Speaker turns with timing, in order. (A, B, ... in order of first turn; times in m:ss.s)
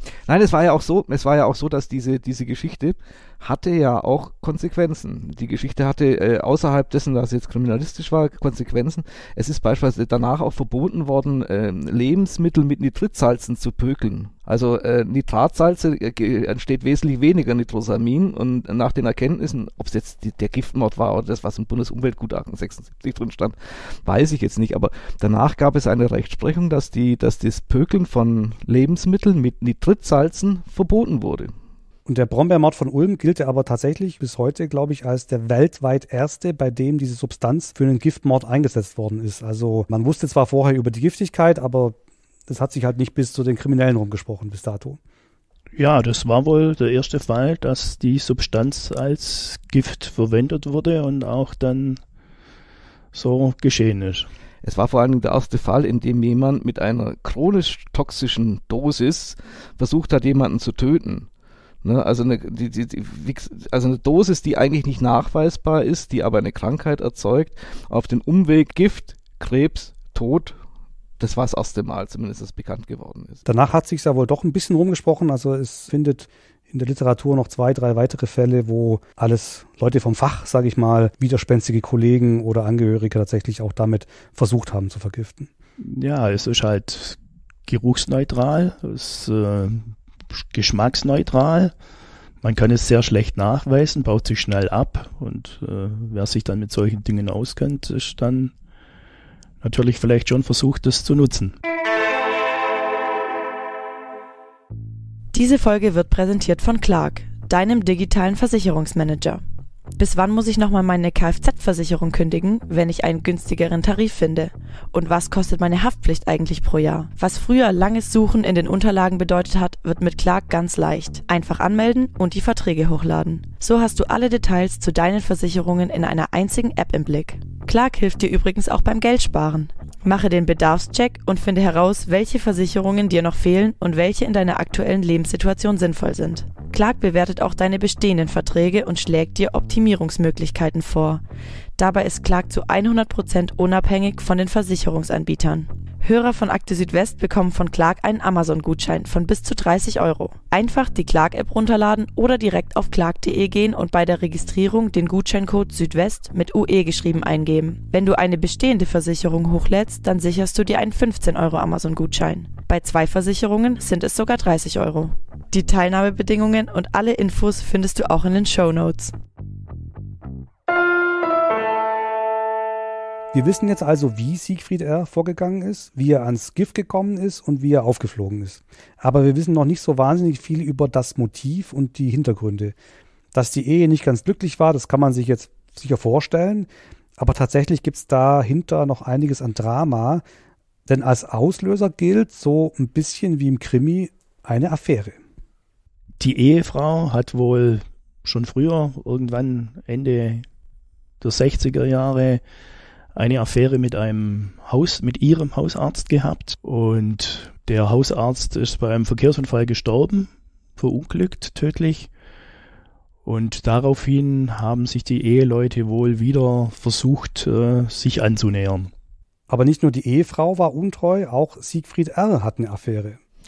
0:00.3-0:31.5 A
0:32.1-0:45.0 B
0:45.8-0:52.0 C
0:53.1-0:54.3 C
0:54.6-1:01.3 A
1:01.8-1:10.6 A
1:11.2-1:13.4 A
1:13.5-1:25.5 B
1:25.8-1:31.7 C
1:32.4-1:38.5 C
1:39.6-1:41.6 C
1:45.3-1:49.4 D
1:50.0-2:21.2 D
2:21.8-2:49.1 D
2:53.3-3:02.8 B
3:03.3-3:10.2 B
3:10.9-3:15.2 B
3:16.2-3:20.4 C
3:21.2-3:22.4 C
3:23.2-3:32.1 C
3:33.2-3:38.9 C
3:39.5-3:43.2 B